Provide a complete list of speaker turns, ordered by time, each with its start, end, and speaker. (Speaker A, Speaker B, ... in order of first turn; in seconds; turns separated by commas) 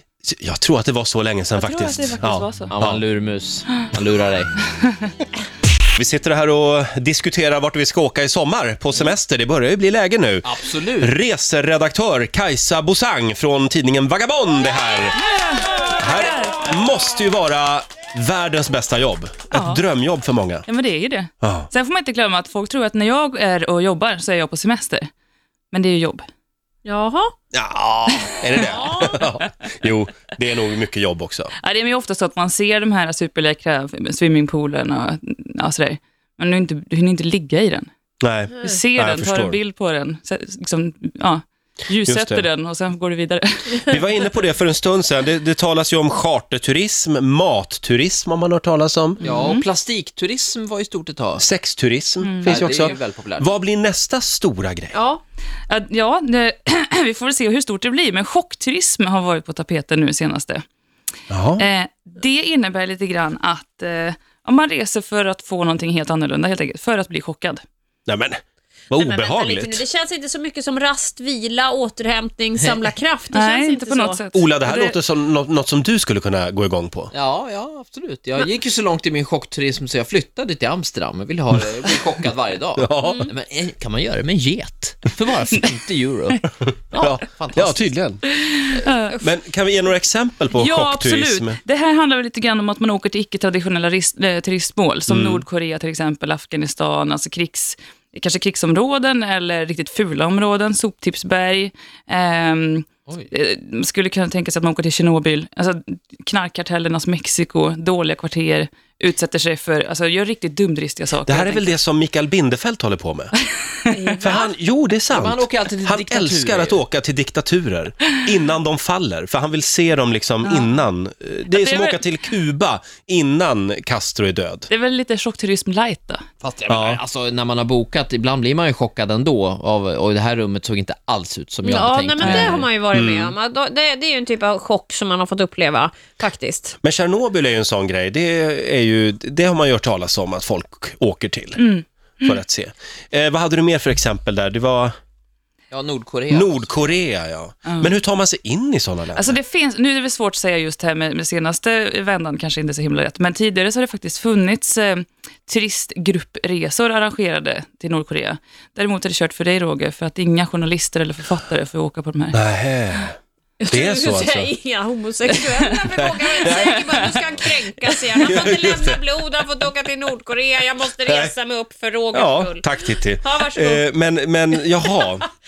Speaker A: 0.2-3.0, Speaker B: 1.6-2.7, Speaker C: 2.7-4.5, Speaker A: 6.0-15.2, Speaker C: 10.4-11.1, Speaker B: 15.1-16.6, Speaker A: 16.0-20.6, Speaker B: 19.5-19.8, Speaker B: 20.7-25.1, Speaker A: 21.4-21.7, Speaker B: 25.7-26.2, Speaker D: 26.8-27.3, Speaker A: 27.5-31.5, Speaker D: 28.6-29.2, Speaker B: 31.6-37.9, Speaker A: 38.2-39.6, Speaker B: 38.5-44.0, Speaker A: 42.0-42.5, Speaker A: 43.8-49.2, Speaker B: 49.2-49.6, Speaker C: 49.2-51.4, Speaker A: 51.4-54.9, Speaker B: 52.2-52.8, Speaker C: 52.4-53.5, Speaker D: 54.9-55.2, Speaker B: 55.7-60.6, Speaker A: 61.3-61.6, Speaker B: 61.6-67.6, Speaker A: 68.1-69.8, Speaker D: 69.0-74.2, Speaker B: 73.3-75.0, Speaker A: 74.3-77.1, Speaker C: 77.1-87.9, Speaker A: 82.8-83.3, Speaker D: 83.0-83.3, Speaker A: 87.0-88.2, Speaker B: 88.2-89.2, Speaker D: 89.1-89.3, Speaker A: 89.2-91.6, Speaker B: 90.5-111.8, Speaker A: 95.1-95.4, Speaker A: 111.3-113.3, Speaker D: 113.9-114.5, Speaker A: 114.2-124.7, Speaker C: 115.1-116.8, Speaker B: 120.4-120.8, Speaker B: 121.5-122.1, Speaker B: 124.7-126.2, Speaker C: 126.4-132.7, Speaker A: 126.7-127.0, Speaker D: 131.6-136.8, Speaker A: 132.2-133.3, Speaker A: 136.8-141.6, Speaker B: 141.6-142.4, Speaker A: 142.2-144.9, Speaker C: 145.7-146.9, Speaker A: 146.3-149.4, Speaker B: 147.6-147.9, Speaker B: 149.1-162.4, Speaker A: 162.3-163.2, Speaker D: 163.6-173.8, Speaker A: 163.7-164.5, Speaker A: 166.0-167.0, Speaker B: 166.4-167.1, Speaker A: 168.2-169.0, Speaker A: 171.1-171.3, Speaker A: 172.1-175.2, Speaker D: 174.6-175.3